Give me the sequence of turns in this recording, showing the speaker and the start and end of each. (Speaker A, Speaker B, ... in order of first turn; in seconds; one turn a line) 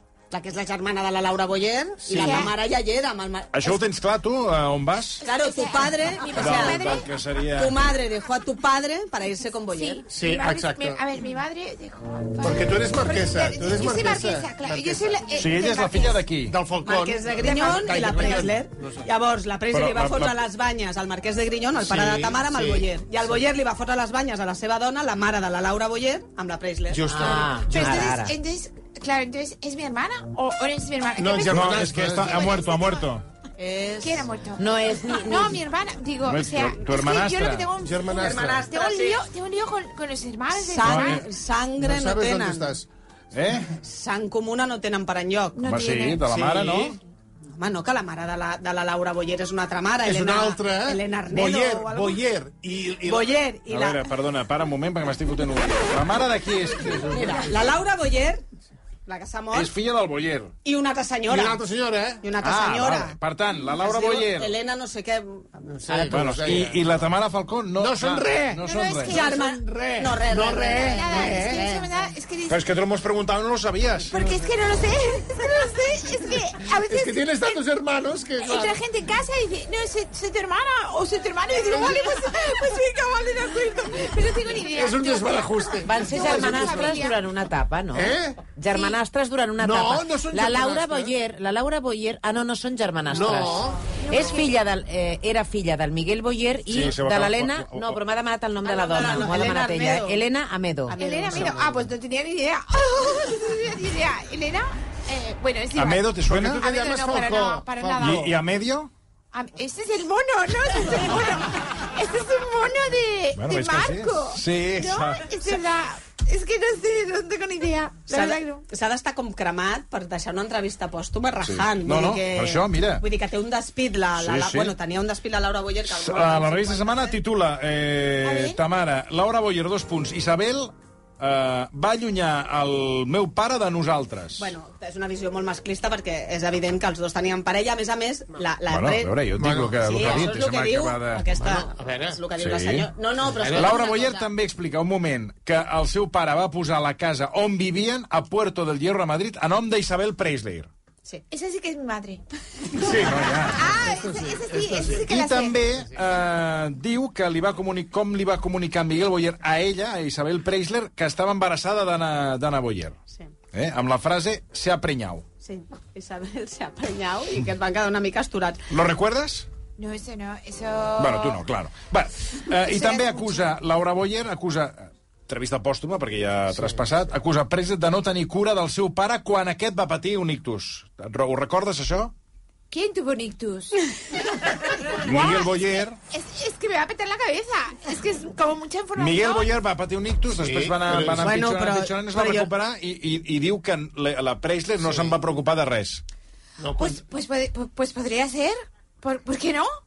Speaker A: 0.3-3.8
Speaker B: 2.1-2.5
Speaker C: 2.1-2.5
Speaker D: 3.5-5.2
Speaker C: 5.2-7.1
Speaker A: 5.2-7.0
Speaker D: 6.4-7.8
Speaker A: 7.6-10.1
Speaker C: 9.7-16.3
Speaker B: 10.1-11.0
Speaker B: 12.4-15.4
Speaker D: 15.3-16.6
Speaker B: 16.4-19.1
Speaker A: 16.9-27.2
Speaker D: 19.7-20.4
Speaker B: 21.8-22.9
Speaker B: 26.9-27.9
Speaker E: 27.1-28.3
Speaker A: 27.7-28.2
Speaker C: 27.7-33.0
Speaker B: 31.2-32.6
Speaker D: 31.5-33.2
Speaker A: 33.6-34.3
Speaker C: 34.0-41.2
Speaker E: 34.6-35.6
Speaker D: 36.3-37.7
Speaker B: 37.8-38.6
Speaker A: 38.2-39.2
Speaker A: 40.5-42.7
Speaker D: 40.9-41.2
Speaker B: 41.8-42.9
Speaker D: 43.3-43.8
Speaker A: 43.8-45.6
Speaker C: 45.6-46.4
Speaker D: 45.6-47.0
Speaker B: 46.3-47.0
Speaker A: 47.6-52.2
Speaker B: 50.0-53.3
Speaker A: 53.0-54.1
Speaker D: 53.7-57.4
Speaker B: 56.9-57.8
Speaker A: 57.1-58.4
Speaker A: 59.1-59.7
Speaker D: 59.5-60.5
Speaker A: 60.6-61.6
Speaker B: 61.3-62.2
Speaker A: 62.2-63.2
Speaker D: 62.4-64.5
Speaker A: 63.8-65.5
Speaker B: 65.6-67.1
Speaker D: 65.9-69.2
Speaker B: 67.8-68.6
Speaker C: 68.6-69.6
Speaker A: 69.1-71.9
Speaker B: 69.7-71.7
Speaker C: 70.5-72.6
Speaker D: 72.5-74.2
Speaker C: 74.1-77.6
Speaker B: 76.7-78.8
Speaker C: 78.4-87.2
Speaker B: 81.7-82.0
Speaker B: 84.7-87.1
Speaker E: 85.8-101.0
Speaker B: 87.9-88.4
Speaker C: 88.6-89.0
Speaker B: 89.6-91.2
Speaker B: 93.1-93.8
Speaker C: 93.9-94.5
Speaker D: 96.7-98.0
Speaker A: 98.6-100.2
Speaker A: 100.9-101.6
Speaker C: 100.9-108.3
Speaker B: 101.3-101.7
Speaker D: 105.7-106.7
Speaker B: 106.3-108.3
Speaker D: 108.0-108.9
Speaker C: 109.3-118.6
Speaker D: 113.3-115.3
Speaker A: 118.1-127.2
Speaker D: 121.4-123.0
Speaker D: 124.2-124.7
Speaker D: 125.9-134.5
Speaker C: 128.2-128.6
Speaker A: 134.4-139.2
Speaker D: 138.7-141.3
Speaker B: 139.3-140.3
Speaker A: 139.8-144.3
Speaker B: 141.3-142.2
Speaker D: 142.4-142.9
Speaker B: 143.3-143.8
Speaker D: 143.5-150.7
Speaker C: 151.3-155.6
Speaker D: 152.8-153.7
Speaker B: 153.7-155.2
Speaker D: 155.1-163.0
Speaker D: 163.5-165.2
Speaker A: 165.4-168.6
Speaker D: 168.7-169.5
Speaker C: 169.8-171.4
Speaker D: 171.0-182.1
Speaker C: 172.6-173.5
Speaker B: 176.5-176.8
Speaker C: 182.7-189.6
Speaker D: 185.0-186.0
Speaker D: 188.9-196.0
Speaker B: 190.4-191.5
Speaker A: 191.2-192.5
Speaker B: 194.8-195.2
Speaker B: 196.6-197.0
Speaker C: 196.8-199.7